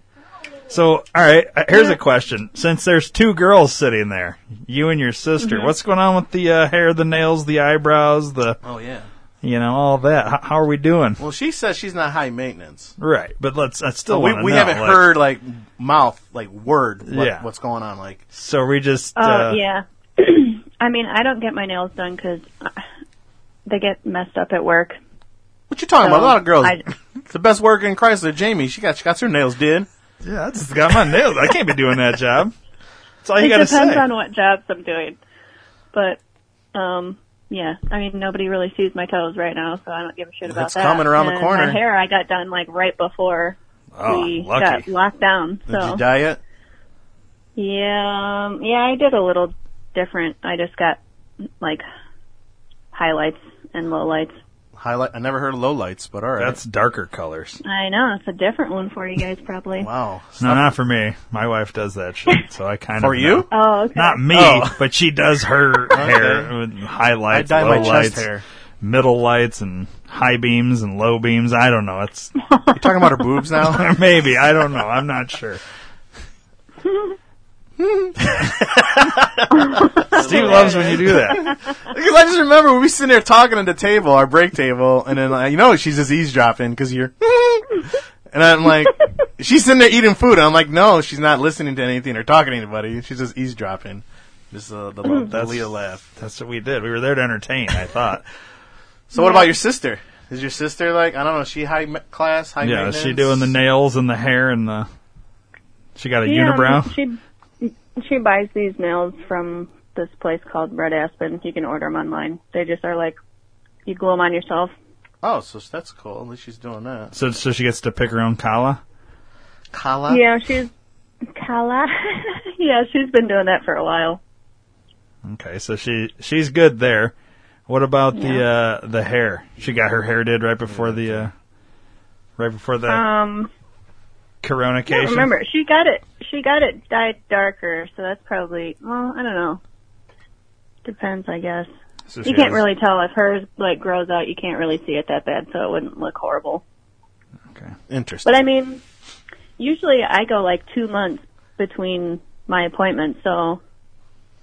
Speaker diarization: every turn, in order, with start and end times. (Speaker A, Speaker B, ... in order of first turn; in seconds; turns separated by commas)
Speaker A: 0.7-8.6, Speaker B: 5.4-5.7, Speaker C: 8.6-9.1, Speaker A: 9.4-11.2, Speaker C: 11.2-12.9, Speaker A: 13.0-15.1, Speaker C: 14.1-18.2, Speaker A: 17.1-17.5, Speaker A: 18.3-19.6, Speaker B: 19.2-22.8, Speaker B: 23.7-25.0, Speaker C: 25.7-29.9, Speaker B: 26.0-26.9, Speaker A: 30.2-32.5, Speaker A: 33.2-34.1, Speaker B: 33.4-35.2, Speaker B: 35.9-36.2, Speaker B: 36.7-46.0, Speaker C: 40.5-41.8, Speaker A: 44.0-44.9, Speaker C: 45.7-46.4, Speaker B: 47.6-51.0, Speaker B: 51.6-51.9, Speaker B: 52.9-54.4, Speaker C: 54.8-56.6, Speaker A: 56.4-57.6, Speaker B: 57.6-59.9, Speaker C: 59.8-60.7, Speaker A: 60.4-68.3, Speaker C: 63.0-63.5, Speaker B: 63.5-64.2, Speaker C: 64.3-64.8, Speaker C: 65.9-66.5, Speaker C: 67.3-68.4, Speaker A: 68.8-72.3, Speaker B: 72.5-72.8, Speaker C: 72.8-73.9, Speaker A: 73.6-75.6, Speaker B: 76.9-77.1, Speaker C: 77.8-96.1, Speaker B: 79.6-81.4, Speaker A: 80.2-81.5, Speaker A: 95.3-98.2, Speaker C: 99.1-103.5, Speaker B: 99.1-99.5, Speaker A: 102.6-104.9, Speaker A: 106.0-106.9, Speaker B: 106.2-113.2, Speaker B: 113.9-114.7, Speaker C: 115.2-117.1, Speaker A: 117.1-118.8, Speaker C: 119.7-120.2, Speaker B: 120.1-120.7, Speaker B: 121.3-124.2, Speaker A: 125.3-127.1, Speaker A: 127.7-131.3, Speaker B: 128.2-128.4, Speaker C: 130.7-131.3, Speaker A: 132.4-133.0, Speaker B: 132.9-133.5, Speaker A: 134.4-135.3, Speaker B: 134.9-139.6, Speaker B: 140.8-141.7, Speaker A: 142.1-142.6, Speaker B: 142.2-146.6, Speaker A: 147.5-147.8, Speaker C: 147.9-148.4, Speaker B: 148.2-148.8, Speaker B: 149.6-153.6